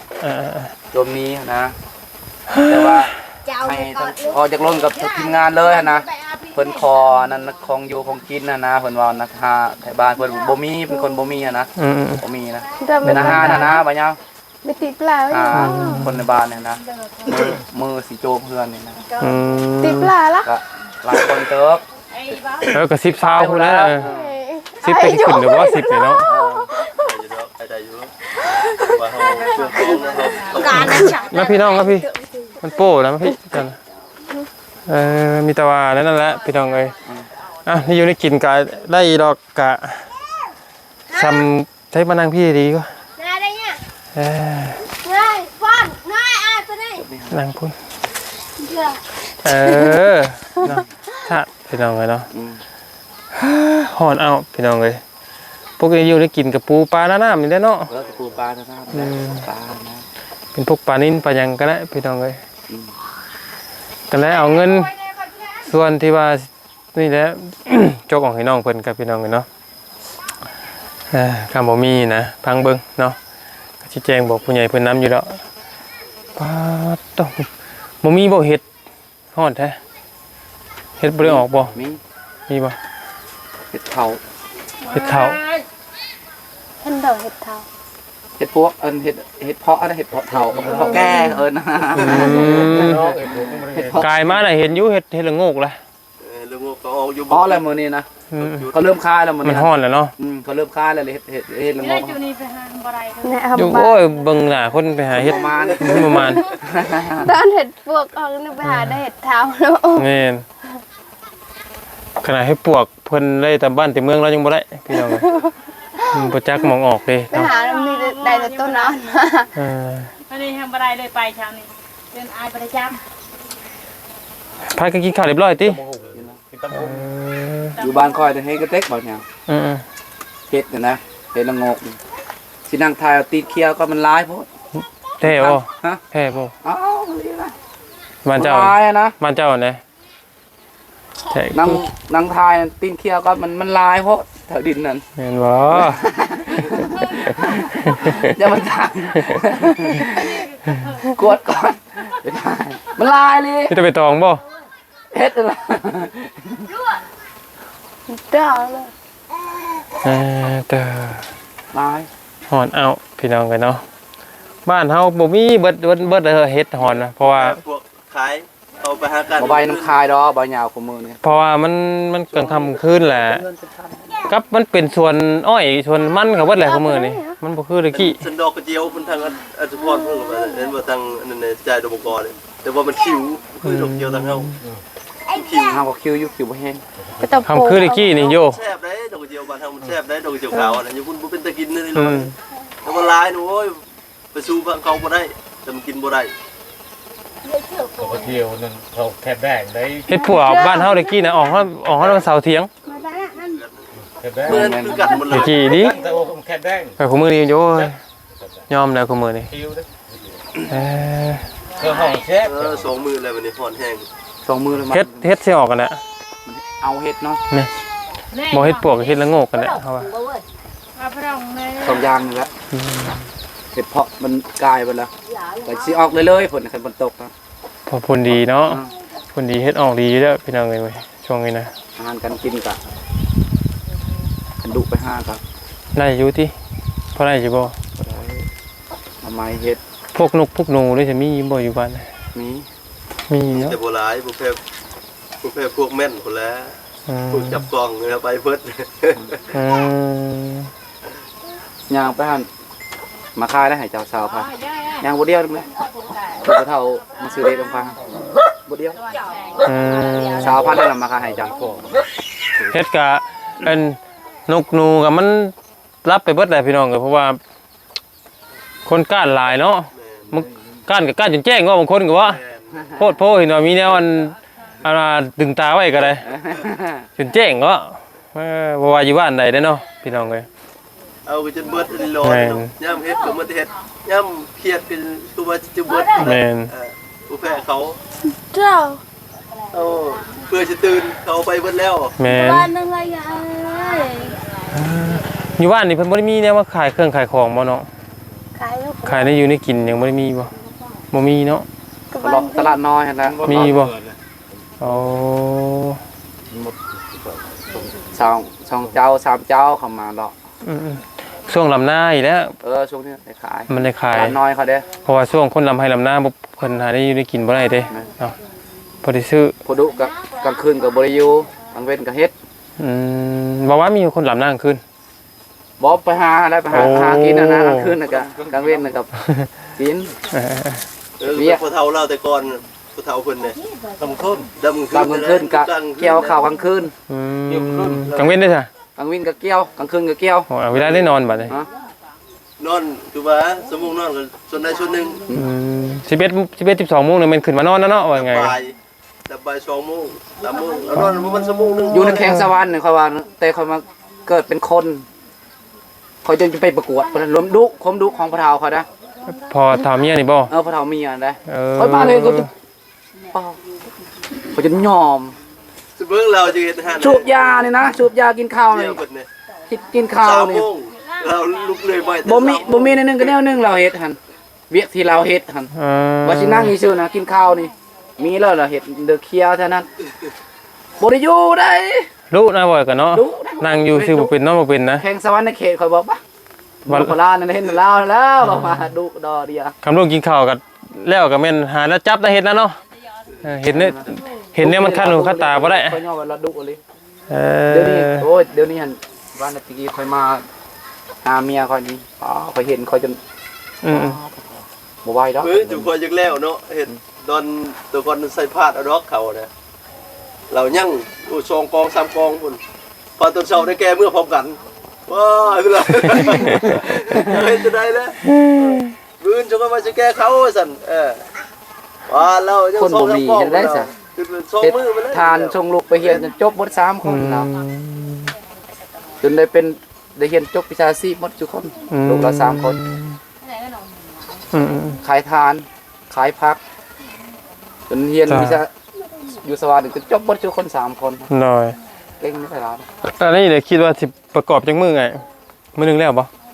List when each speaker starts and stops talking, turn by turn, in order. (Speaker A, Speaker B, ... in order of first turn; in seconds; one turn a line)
Speaker A: 0.2-0.7
Speaker B: 0.9-1.7
Speaker A: 2.5-3.1
Speaker B: 2.6-14.2
Speaker C: 3.5-4.3
Speaker A: 11.8-12.2
Speaker C: 12.8-13.8
Speaker A: 13.0-13.8
Speaker C: 14.6-16.0
Speaker B: 15.3-19.0
Speaker A: 15.5-16.2
Speaker A: 19.2-20.1
Speaker C: 19.8-20.5
Speaker B: 20.4-21.8
Speaker D: 22.1-22.8
Speaker A: 22.7-24.1
Speaker B: 23.2-24.4
Speaker C: 24.0-27.0
Speaker A: 24.8-26.3
Speaker B: 26.2-26.8
Speaker E: 26.9-28.1
Speaker C: 28.4-28.9
Speaker E: 28.8-31.1
Speaker C: 30.5-32.7
Speaker A: 30.8-32.1
Speaker A: 32.6-33.8
Speaker A: 34.9-36.9
Speaker A: 37.6-40.1
Speaker C: 41.1-41.4
Speaker A: 41.1-42.9
Speaker C: 43.2-43.8
Speaker A: 44.1-44.8
Speaker C: 45.0-47.0
Speaker B: 47.0-47.4
Speaker A: 47.3-47.7
Speaker C: 48.6-49.0
Speaker A: 49.4-52.3
Speaker C: 49.7-50.0
Speaker B: 52.3-52.6
Speaker A: 53.3-55.0
Speaker A: 55.8-57.9
Speaker B: 57.9-60.0
Speaker A: 58.9-59.4
Speaker A: 60.5-62.4
Speaker B: 62.7-62.9
Speaker A: 64.1-64.9
Speaker A: 65.6-69.5
Speaker A: 71.1-73.2
Speaker A: 73.8-75.4
Speaker A: 76.3-77.5
Speaker A: 78.0-78.6
Speaker A: 79.3-79.8
Speaker A: 81.0-81.7
Speaker B: 81.2-82.0
Speaker A: 82.5-82.8
Speaker B: 83.7-84.2
Speaker A: 84.9-85.4
Speaker C: 86.8-87.6
Speaker B: 88.4-94.1
Speaker F: 90.1-91.2
Speaker C: 90.8-91.2
Speaker A: 92.0-93.0
Speaker F: 92.0-94.1
Speaker A: 94.0-95.8
Speaker E: 96.2-97.6
Speaker B: 97.3-98.1
Speaker A: 98.3-98.7
Speaker E: 98.4-98.8
Speaker B: 98.7-102.2
Speaker A: 99.4-100.1
Speaker D: 101.8-103.4
Speaker C: 103.2-104.0
Speaker A: 103.5-106.4
Speaker B: 105.1-107.3
Speaker E: 105.2-106.5
Speaker C: 106.1-106.4
Speaker C: 107.2-110.1
Speaker A: 108.6-109.0
Speaker A: 109.9-110.5
Speaker A: 112.2-115.3
Speaker C: 115.0-116.2
Speaker A: 116.1-117.5
Speaker C: 117.3-119.5
Speaker D: 117.4-119.0
Speaker A: 119.5-120.1
Speaker D: 120.3-123.0
Speaker A: 124.7-125.8
Speaker F: 125.5-127.1
Speaker B: 126.1-126.4
Speaker A: 126.7-127.8
Speaker D: 127.8-128.1
Speaker B: 127.8-129.2
Speaker A: 129.5-129.8
Speaker B: 130.5-132.0
Speaker B: 132.7-134.5
Speaker A: 135.2-136.5
Speaker B: 135.2-136.0
Speaker B: 136.6-137.5
Speaker A: 138.2-139.8
Speaker B: 138.3-139.2
Speaker A: 141.3-141.8
Speaker B: 141.5-145.0
Speaker A: 145.2-146.0
Speaker B: 145.7-150.4
Speaker A: 147.0-148.3
Speaker A: 149.2-150.0
Speaker D: 150.0-151.2
Speaker B: 151.1-153.8
Speaker A: 153.7-154.4
Speaker B: 155.1-156.7
Speaker C: 158.1-158.9
Speaker A: 160.0-161.3
Speaker B: 161.7-162.1
Speaker A: 162.5-163.8
Speaker A: 164.6-167.6
Speaker E: 166.8-169.9
Speaker B: 169.4-171.2
Speaker A: 171.2-173.4
Speaker E: 172.3-172.8
Speaker B: 173.3-174.3
Speaker A: 174.3-178.3
Speaker C: 176.6-177.4
Speaker E: 177.9-184.5
Speaker A: 183.6-184.6
Speaker C: 185.3-185.7
Speaker E: 185.3-185.8
Speaker B: 185.7-186.8
Speaker F: 187.0-187.7
Speaker C: 187.2-188.2
Speaker A: 187.4-188.6
Speaker E: 188.0-192.3
Speaker C: 190.5-190.8
Speaker A: 191.9-192.3
Speaker E: 192.8-193.8
Speaker E: 194.3-196.3
Speaker C: 197.5-197.9
Speaker F: 197.9-200.2
Speaker A: 200.1-202.7
Speaker C: 200.2-201.4
Speaker C: 202.8-203.6
Speaker E: 203.4-203.8
Speaker F: 204.2-204.7
Speaker E: 204.4-205.7
Speaker B: 204.4-205.2
Speaker A: 205.3-206.0
Speaker F: 205.6-207.0
Speaker A: 207.0-207.9
Speaker F: 207.7-208.7
Speaker A: 208.7-209.5
Speaker F: 209.5-210.5
Speaker A: 210.7-211.5
Speaker F: 211.8-212.9
Speaker E: 212.4-214.1
Speaker B: 214.4-215.3
Speaker A: 214.9-216.0
Speaker B: 216.4-217.4
Speaker D: 218.3-219.2
Speaker A: 218.5-220.1
Speaker D: 220.9-222.1
Speaker B: 221.8-222.5
Speaker A: 222.7-223.2
Speaker B: 223.7-225.1
Speaker B: 225.6-227.3
Speaker A: 227.9-228.8
Speaker B: 228.6-228.9
Speaker A: 229.3-231.7
Speaker B: 231.9-232.8
Speaker B: 234.6-235.4
Speaker A: 235.9-236.5
Speaker A: 237.1-237.7
Speaker B: 237.9-238.5
Speaker B: 239.2-239.8
Speaker A: 240.1-242.1
Speaker B: 242.3-242.7
Speaker A: 243.3-243.8
Speaker E: 243.5-244.6
Speaker E: 245.4-246.7
Speaker A: 247.1-247.7
Speaker E: 247.3-249.4
Speaker A: 249.5-250.7
Speaker B: 251.9-252.5
Speaker B: 253.3-254.5
Speaker D: 254.5-255.0
Speaker B: 255.0-255.7
Speaker B: 256.4-258.0
Speaker B: 258.6-259.0
Speaker D: 259.1-259.7
Speaker A: 259.6-260.8
Speaker B: 260.4-261.6
Speaker F: 260.4-262.0
Speaker A: 262.7-267.4
Speaker A: 268.9-272.4
Speaker E: 269.9-270.4
Speaker E: 272.2-273.0
Speaker A: 273.0-276.2
Speaker B: 276.2-277.1
Speaker A: 277.2-280.5
Speaker E: 281.2-288.0
Speaker A: 282.2-282.7
Speaker A: 286.2-286.7
Speaker C: 288.3-289.0
Speaker E: 289.7-292.2
Speaker A: 292.2-292.7
Speaker C: 292.2-294.4
Speaker A: 294.7-297.9
Speaker C: 298.6-299.4
Speaker A: 299.0-300.5
Speaker A: 301.1-301.7
Speaker C: 302.1-302.8
Speaker B: 302.2-303.7
Speaker F: 303.2-304.2
Speaker A: 303.4-303.9
Speaker A: 304.8-306.0
Speaker F: 306.5-308.1
Speaker B: 308.1-310.3
Speaker A: 310.6-312.5
Speaker B: 312.6-314.9
Speaker A: 313.7-314.4
Speaker A: 315.0-318.4
Speaker A: 319.0-319.5
Speaker B: 319.6-322.3
Speaker A: 322.8-324.8
Speaker B: 325.8-329.1
Speaker A: 326.7-327.9
Speaker F: 328.0-328.9
Speaker B: 329.8-330.1
Speaker A: 330.3-330.8
Speaker E: 331.2-333.6
Speaker B: 331.3-331.6
Speaker F: 334.0-334.5
Speaker E: 334.6-336.5
Speaker B: 334.9-336.9
Speaker A: 337.1-338.7
Speaker F: 337.5-338.1
Speaker E: 338.1-338.4
Speaker B: 339.0-340.5
Speaker A: 340.5-341.5
Speaker E: 340.7-341.1
Speaker E: 342.6-345.2
Speaker A: 345.3-348.6
Speaker E: 348.1-348.7
Speaker E: 349.3-352.3
Speaker A: 350.9-352.5
Speaker B: 351.9-355.1
Speaker B: 356.2-358.9
Speaker A: 359.3-360.5
Speaker B: 360.5-362.5
Speaker A: 361.5-362.5
Speaker B: 363.3-363.6
Speaker B: 364.5-365.4
Speaker E: 366.0-367.6
Speaker B: 367.0-369.0
Speaker E: 368.7-369.3
Speaker B: 369.7-370.7
Speaker E: 370.2-373.3
Speaker D: 371.1-372.0
Speaker B: 372.2-374.2
Speaker B: 374.7-375.7
Speaker A: 375.7-376.8
Speaker B: 376.2-379.9
Speaker B: 381.0-382.1
Speaker A: 382.3-385.0
Speaker B: 383.1-384.3
Speaker B: 385.0-386.2
Speaker B: 386.8-389.7
Speaker A: 386.9-387.1
Speaker A: 388.4-388.9
Speaker A: 389.8-392.8
Speaker A: 393.4-396.0
Speaker B: 393.6-396.8
Speaker A: 397.3-398.3
Speaker B: 397.7-400.4
Speaker B: 401.2-403.2
Speaker A: 403.8-404.2
Speaker B: 403.9-405.9
Speaker E: 405.4-409.5
Speaker E: 410.5-412.6
Speaker E: 413.2-418.2
Speaker A: 416.1-417.4
Speaker A: 418.2-418.9
Speaker E: 419.2-421.2
Speaker E: 422.1-426.2
Speaker B: 422.8-423.9
Speaker B: 424.6-427.5
Speaker A: 427.0-428.3
Speaker B: 429.2-432.8
Speaker A: 431.9-433.2
Speaker D: 433.4-434.4
Speaker A: 434.5-435.0
Speaker B: 435.0-436.6
Speaker B: 437.9-438.7
Speaker A: 438.3-438.6
Speaker B: 439.3-441.3
Speaker A: 441.3-441.8
Speaker B: 442.2-442.9
Speaker A: 443.0-445.2
Speaker A: 445.8-446.3